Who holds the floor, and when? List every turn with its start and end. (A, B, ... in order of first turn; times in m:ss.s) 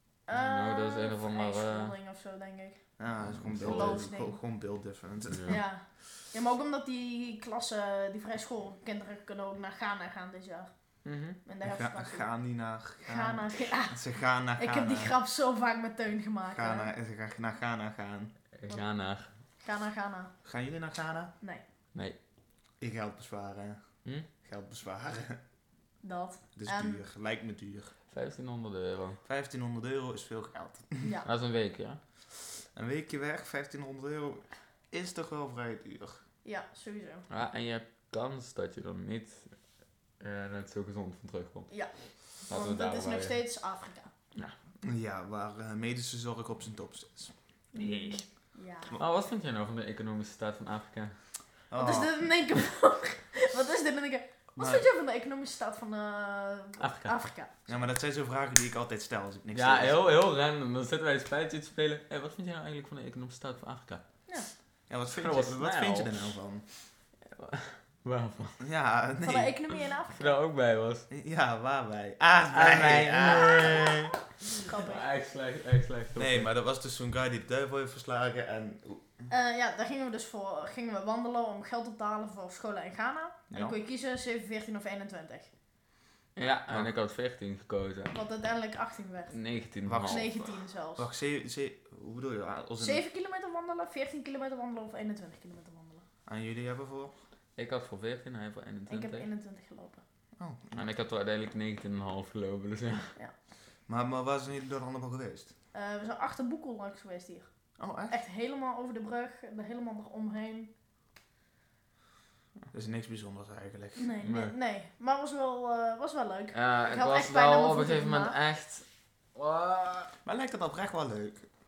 0:00.3-0:02.8 A
0:00.3-0:01.9 B
0:03.0-0:05.6 C
0:03.3-0:04.1 B
0:03.6-0:04.4 A
0:05.3-0:05.6 B
0:05.5-0:10.7 A
0:11.0-0:11.4 B
0:11.4-0:12.2 A
0:11.6-0:15.1 C
0:13.0-0:14.0 A
0:14.6-0:16.9 A
0:16.5-0:18.3 C
0:18.6-0:19.3 B
0:19.6-0:20.3 A
0:20.4-0:21.3 C
0:22.8-0:23.8 C
0:24.4-0:25.4 C
0:26.0-0:27.0 A
0:26.6-0:27.9 C
0:28.1-0:29.2 B
0:29.2-0:31.1 C
0:31.0-0:31.3 A
0:31.2-0:32.0 B
0:32.7-0:36.2 C
0:36.4-0:37.2 A
0:37.3-0:39.6 B
0:40.2-0:41.7 B
0:42.5-0:44.1 A
0:42.5-0:43.4 B
0:44.8-0:48.2 C
0:47.7-0:48.9 A
0:49.0-0:51.2 B
0:51.7-0:52.1 C
0:51.8-0:57.5 A
0:54.6-0:54.9 C
0:56.8-0:57.2 B
0:57.7-1:00.1 C
0:59.5-1:04.0 B
1:04.9-1:06.6 C
1:05.2-1:06.4 B
1:07.2-1:08.6 B
1:08.6-1:09.6 C
1:09.2-1:10.4 A
1:10.1-1:11.0 B
1:11.1-1:14.1 C
1:12.5-1:16.5 B
1:14.5-1:15.1 A
1:16.2-1:19.2 C
1:19.3-1:25.5 A
1:23.5-1:23.8 C
1:26.4-1:28.1 B
1:28.1-1:29.4 A
1:29.3-1:30.3 B
1:29.8-1:33.0 C
1:30.0-1:31.0 A
1:32.8-1:36.0 A
1:36.3-1:37.1 C
1:37.6-1:39.3 B
1:38.9-1:40.0 A
1:40.4-1:40.8 C
1:40.7-1:43.1 B
1:43.9-1:45.5 C
1:45.7-1:47.5 A
1:47.8-1:48.1 C
1:48.1-1:50.7 A
1:52.7-1:54.1 C
1:54.0-1:58.3 A
1:54.2-1:54.5 B
1:56.5-2:00.1 B
2:00.2-2:01.5 C